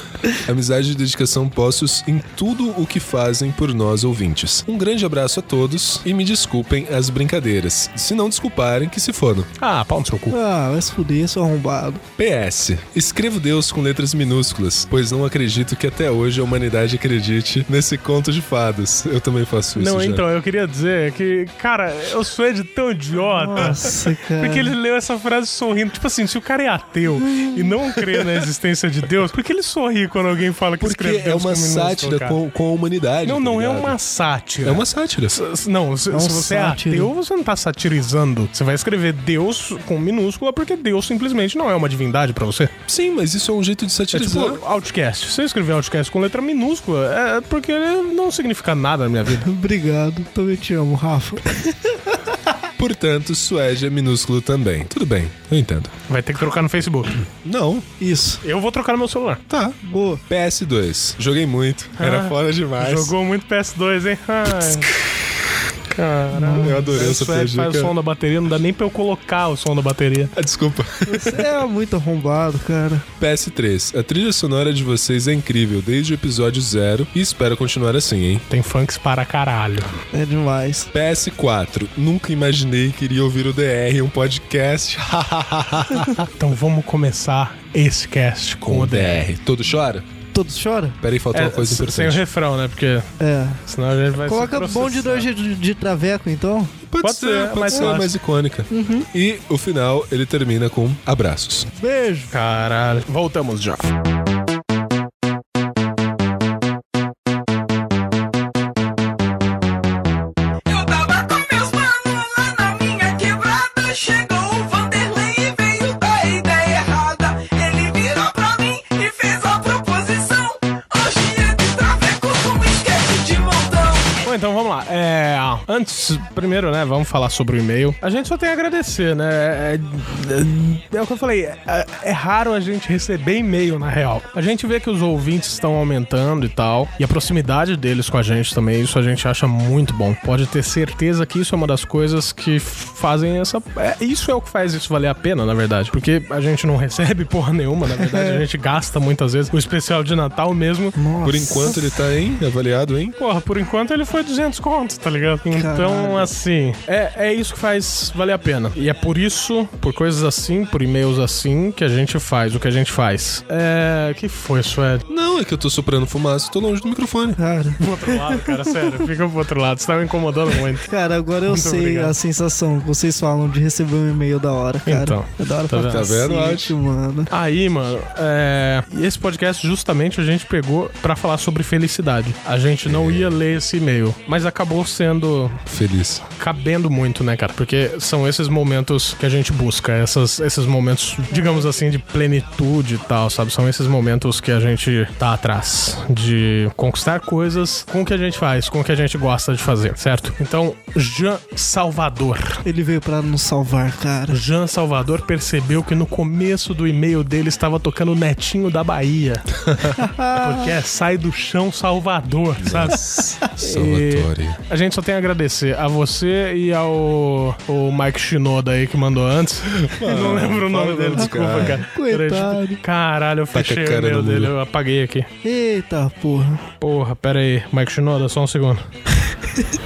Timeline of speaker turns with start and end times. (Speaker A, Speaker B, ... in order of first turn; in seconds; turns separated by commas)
Speaker A: 0.3-9.5, Speaker B: 9.6-10.4, Speaker C: 10.3-12.0, Speaker A: 12.2-20.2, Speaker B: 19.8-32.4, Speaker C: 23.3-24.7, Speaker C: 27.2-27.7, Speaker A: 30.8-34.0, Speaker B: 33.2-42.7, Speaker A: 34.6-35.4, Speaker C: 36.1-37.1, Speaker A: 42.9-44.6, Speaker B: 44.1-49.5, Speaker C: 49.4-52.5, Speaker A: 52.8-55.9, Speaker B: 56.1-57.2, Speaker A: 57.4-57.9, Speaker C: 58.0-58.4, Speaker B: 58.4-59.4, Speaker A: 59.5-63.1, Speaker C: 59.8-60.2, Speaker B: 62.0-65.1, Speaker B: 65.9-70.3, Speaker C: 66.3-67.0, Speaker A: 66.5-67.9, Speaker A: 70.3-71.5, Speaker C: 71.0-73.1, Speaker A: 73.2-78.5, Speaker B: 78.5-79.9, Speaker C: 80.1-80.9, Speaker A: 80.9-86.3, Speaker B: 86.4-89.2, Speaker A: 88.6-90.0, Speaker C: 90.3-91.0, Speaker A: 91.0-92.2, Speaker B: 91.3-93.1, Speaker C: 93.2-93.6, Speaker B: 93.6-95.3, Speaker C: 94.2-96.7, Speaker A: 96.9-101.7, Speaker B: 97.0-98.1, Speaker C: 98.7-99.1, Speaker C: 101.7-102.3, Speaker B: 102.3-103.9, Speaker D: 110.7-124.2, Speaker B: 124.2-151.0, Speaker C: 147.9-148.4, Speaker C: 150.9-152.0, Speaker A: 151.2-153.1, Speaker B: 153.2-165.1, Speaker C: 155.5-156.3, Speaker A: 165.1-167.4, Speaker C: 167.4-168.9, Speaker B: 167.8-170.9, Speaker C: 170.8-177.3, Speaker B: 171.5-172.1, Speaker B: 174.8-176.2, Speaker A: 175.8-176.8, Speaker B: 177.3-185.6, Speaker A: 182.8-183.4, Speaker A: 185.7-186.2, Speaker B: 186.3-202.6, Speaker C: 202.6-204.4, Speaker B: 204.3-209.5, Speaker A: 209.6-210.0, Speaker C: 209.9-210.8, Speaker B: 210.3-213.0, Speaker A: 212.6-214.6, Speaker B: 213.6-225.3, Speaker A: 219.7-221.8, Speaker C: 221.1-222.8, Speaker A: 223.5-224.5, Speaker C: 225.4-226.6, Speaker B: 226.8-228.9